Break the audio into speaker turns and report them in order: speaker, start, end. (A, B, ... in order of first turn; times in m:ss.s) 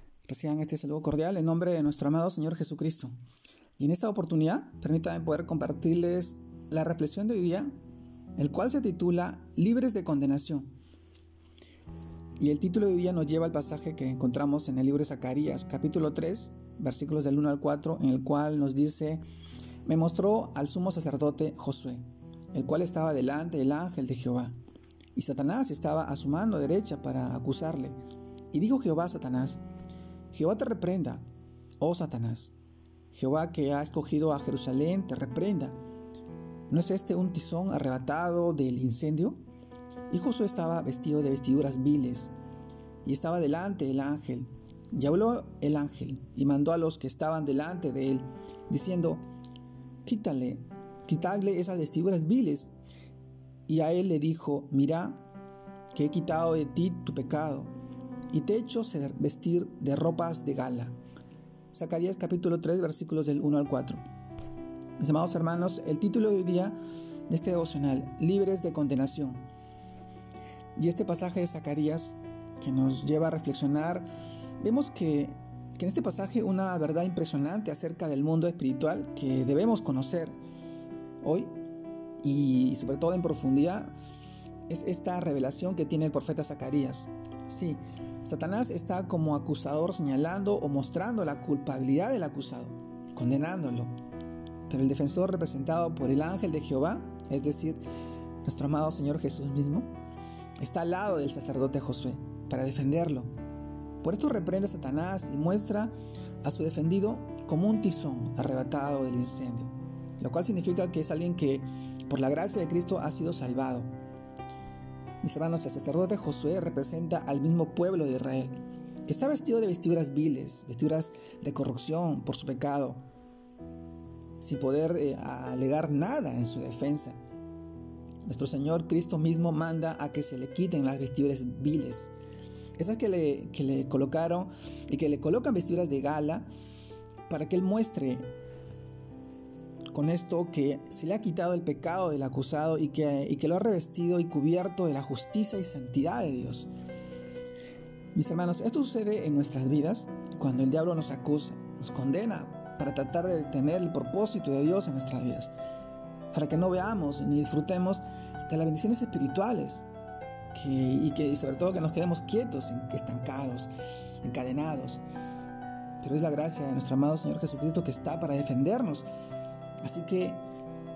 0:00.3-0:03.1 A
0:03.8-0:07.7 A
0:08.4-0:10.7 A
0:12.4-0:19.2 A
0:19.8-0:24.6 A
0:25.2-0:28.0 A
0:28.5-0:29.6 A
0:30.3-0:31.2 A
0:31.8-0:32.6 A
0:33.1-0:35.8 A
0:36.7-0:39.4 A
0:40.1-0:42.3 A
0:43.0-0:49.2 A
0:50.0-0:52.7 A
0:53.7-0:55.2 A
0:55.9-0:57.7 A
0:58.3-1:01.0 A
1:01.7-1:04.0 A
1:05.0-1:09.4 A
1:10.8-1:14.1 A
1:14.6-1:20.4 A
1:21.2-1:21.5 A
1:22.2-1:23.9 A
1:24.7-1:33.9 A
1:34.7-1:37.8 A
1:38.4-1:39.9 A
1:40.6-1:43.3 A
1:44.0-1:53.9 A
1:55.2-2:03.0 A
2:04.4-2:07.2 A
2:08.2-2:12.1 A
2:12.8-2:16.5 A
2:17.3-2:18.3 A
2:19.9-2:26.7 A
2:28.2-2:35.5 A
2:36.3-2:39.9 A
2:40.5-2:43.7 A
2:44.2-2:45.0 A
2:46.0-2:49.1 A
2:49.8-2:50.4 A